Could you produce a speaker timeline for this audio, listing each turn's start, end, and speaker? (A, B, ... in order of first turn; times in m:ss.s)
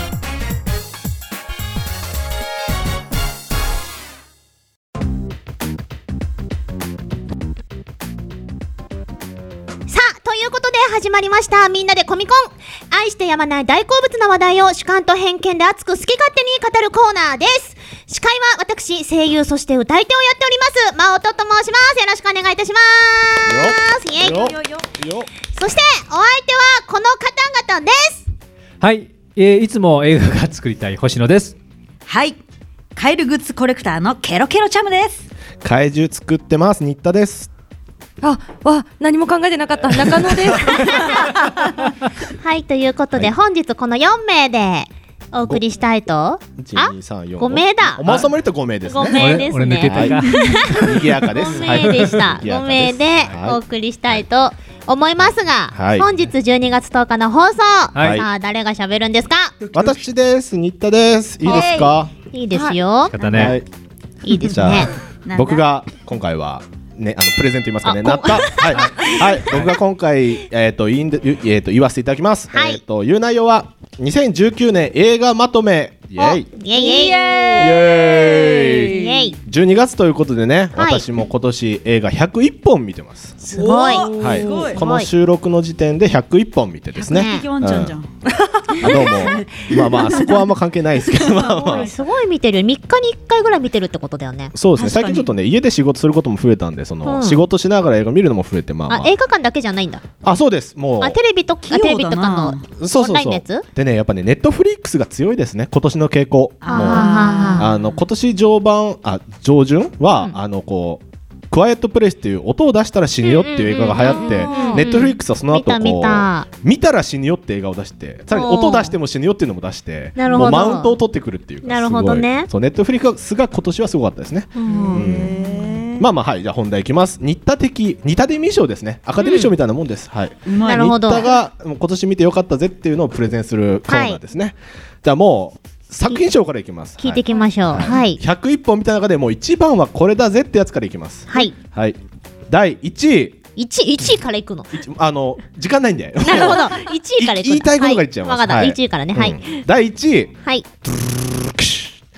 0:09.9-0:24.6 A
0:23.4-0:25.3 B
0:25.5-0:28.2 A
0:28.8-0:31.6 C
0:32.1-0:32.4 D
0:32.9-0:35.3 D
0:35.6-0:37.5 B
0:38.2-0:40.9 E
0:42.4-0:48.2 A
0:46.6-0:50.1 B
0:48.8-0:59.6 A
0:49.2-0:50.8 C
0:50.7-0:53.6 B
0:55.7-0:56.1 B
0:57.9-0:58.2 C
0:58.0-0:58.2 B
0:59.7-1:02.1 B
1:01.4-1:03.4 A
1:03.1-1:03.6 C
1:03.3-1:03.6 B
1:04.2-1:04.9 A
1:04.5-1:16.5 B
1:05.2-1:05.6 D
1:07.8-1:09.4 A
1:12.5-1:12.8 A
1:16.2-1:17.8 A
1:16.8-1:19.3 D
1:17.6-1:23.4 B
1:18.8-1:19.4 A
1:20.8-1:21.0 A
1:23.5-1:24.8 D
1:23.5-1:25.1 A
1:24.2-1:28.0 B
1:27.0-1:28.1 D
1:27.0-1:27.4 A
1:28.6-1:30.4 D
1:28.8-1:31.9 B
1:31.2-1:31.9 D
1:31.7-1:34.5 A
1:34.5-1:39.1 B
1:34.7-1:35.3 D
1:37.0-1:37.4 A
1:38.9-1:40.0 A
1:40.2-1:41.2 B
1:41.0-1:43.6 A
1:41.6-1:42.6 D
1:42.8-2:05.3 B
1:46.6-1:48.0 D
1:46.7-1:47.7 A
1:53.2-1:56.4 A
1:54.3-1:54.8 E
1:58.3-1:58.9 A
2:00.2-2:01.0 A
2:01.6-2:02.5 A
2:04.6-2:05.3 A
2:04.6-2:06.0 D
2:06.0-2:23.4 B
2:09.2-2:09.5 A
2:10.4-2:10.9 D
2:10.6-2:11.3 A
2:13.9-2:14.2 A
2:17.0-2:18.2 A
2:21.3-2:21.6 A
2:23.6-2:24.7 A
2:24.7-2:30.3 B
2:26.2-2:29.6 A
2:30.9-2:31.9 B